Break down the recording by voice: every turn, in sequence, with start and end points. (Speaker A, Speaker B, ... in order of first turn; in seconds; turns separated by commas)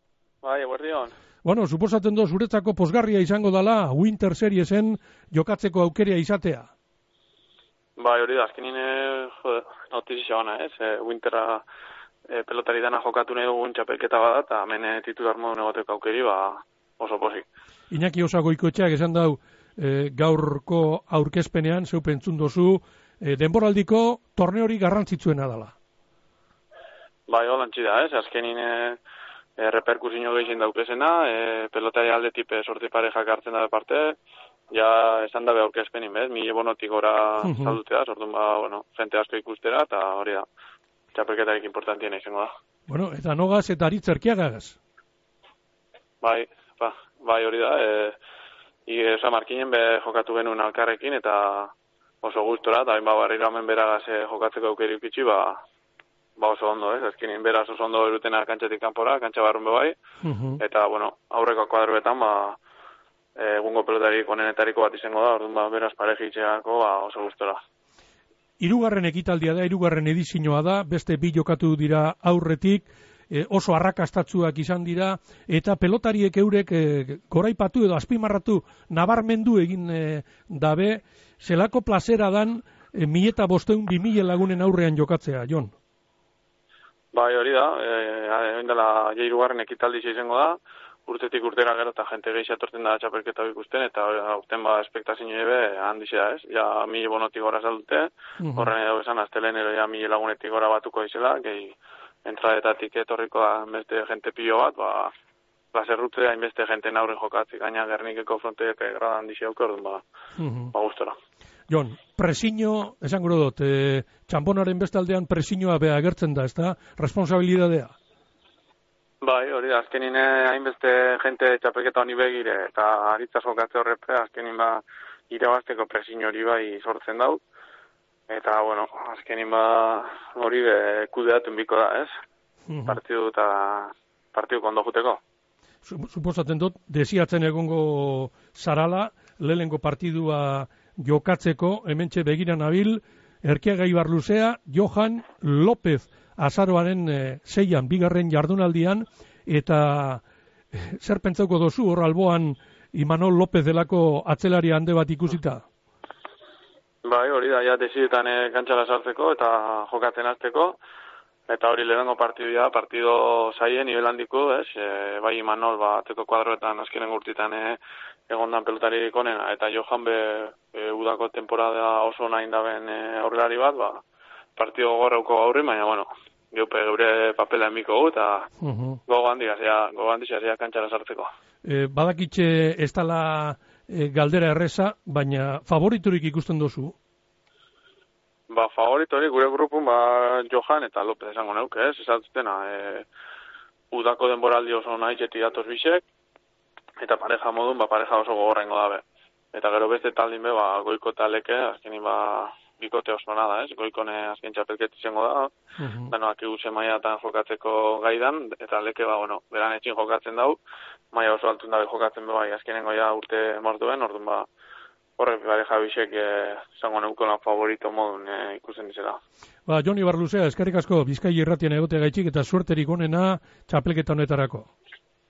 Speaker A: 0.4-1.1, Speaker B: 1.4-6.7, Speaker A: 8.0-11.6, Speaker A: 12.3-17.5, Speaker B: 17.9-25.8, Speaker A: 27.3-29.0, Speaker A: 29.6-34.2, Speaker A: 34.7-40.5, Speaker B: 37.4-37.8, Speaker A: 41.1-42.5, Speaker B: 42.9-44.8, Speaker A: 46.2-48.2, Speaker A: 48.9-55.6, Speaker A: 56.4-60.0, Speaker B: 60.2-60.6, Speaker A: 60.6-62.6, Speaker A: 63.4-67.6, Speaker B: 68.6-85.7, Speaker A: 87.1-105.1, Speaker B: 98.4-98.8, Speaker A: 105.7-110.0, Speaker B: 110.4-110.7, Speaker A: 110.7-111.2, Speaker B: 111.7-117.9, Speaker A: 119.2-127.4, Speaker A: 128.3-132.1, Speaker B: 132.7-133.0, Speaker A: 132.9-135.2, Speaker B: 135.9-155.6, Speaker A: 157.0-160.8, Speaker A: 161.5-174.0, Speaker A: 174.6-178.5, Speaker B: 178.6-179.0, Speaker A: 179.1-181.3, Speaker B: 181.6-186.9, Speaker A: 188.5-193.1, Speaker A: 193.9-196.0, Speaker A: 197.0-205.5, Speaker B: 205.8-206.1, Speaker A: 206.1-210.6, Speaker A: 211.1-214.5, Speaker A: 215.2-219.2, Speaker B: 219.7-224.7